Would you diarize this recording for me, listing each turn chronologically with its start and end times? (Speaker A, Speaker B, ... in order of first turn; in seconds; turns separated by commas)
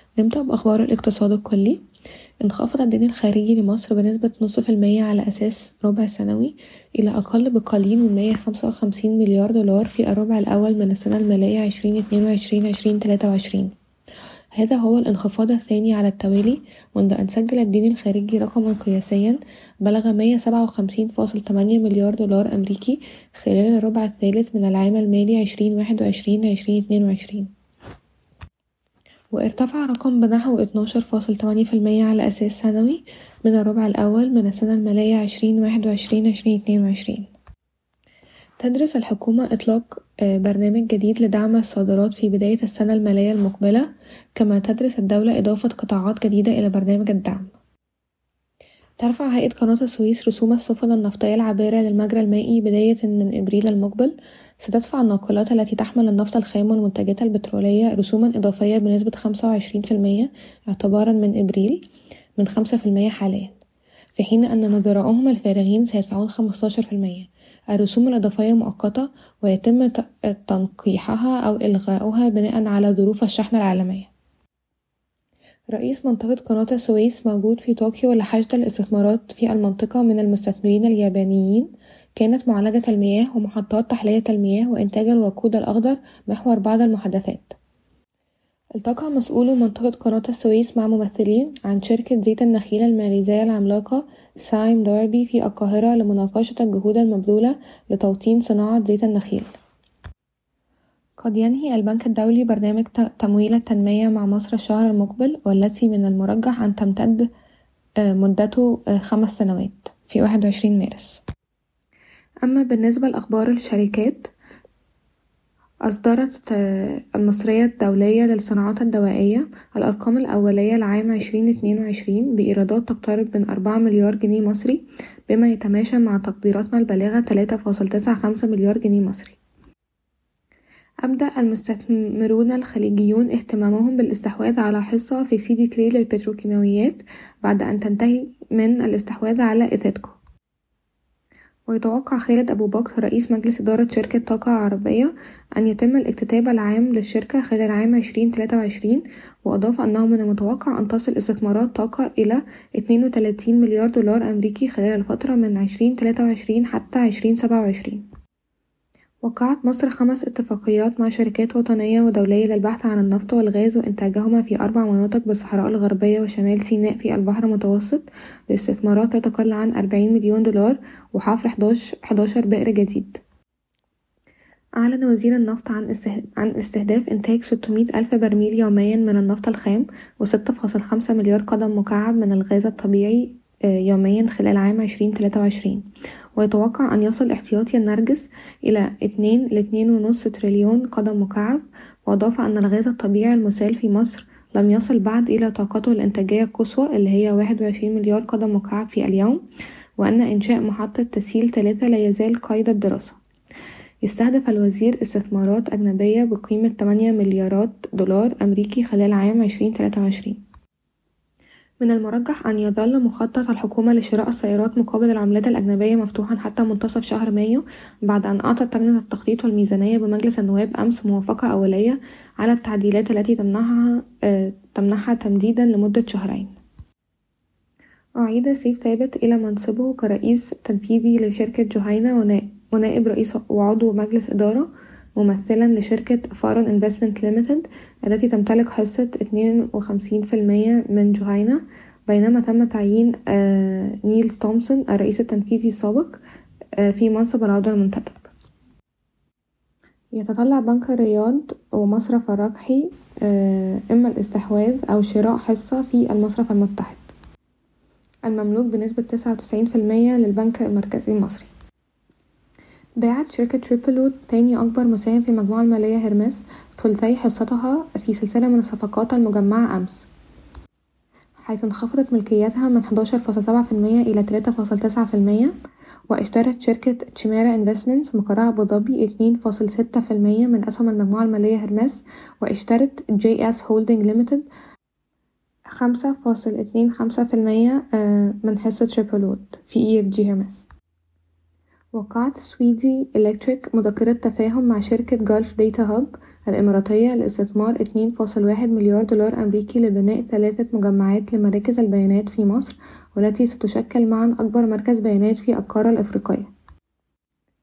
Speaker A: 0.2-1.8, Speaker A: 2.4-13.7, Speaker A: 14.5-27.5, Speaker A: 29.3-37.3, Speaker A: 38.6-47.5, Speaker A: 49.0-61.8, Speaker A: 62.4-63.5, Speaker A: 64.2-74.1, Speaker A: 75.7-87.6, Speaker A: 88.8-99.5, Speaker A: 101.2-107.3, Speaker A: 108.0-111.2, Speaker A: 112.4-114.3, Speaker A: 115.9-129.4, Speaker A: 131.1-140.2, Speaker A: 141.7-158.1, Speaker A: 159.2-173.2, Speaker A: 174.8-199.4, Speaker A: 200.0-203.2, Speaker A: 204.0-210.4, Speaker A: 211.8-226.6, Speaker A: 228.2-246.2, Speaker A: 246.8-248.3, Speaker A: 250.1-257.0, Speaker A: 258.2-261.5, Speaker A: 263.0-270.1, Speaker A: 271.4-275.5, Speaker A: 276.1-284.4, Speaker A: 285.7-290.6, Speaker A: 291.9-306.5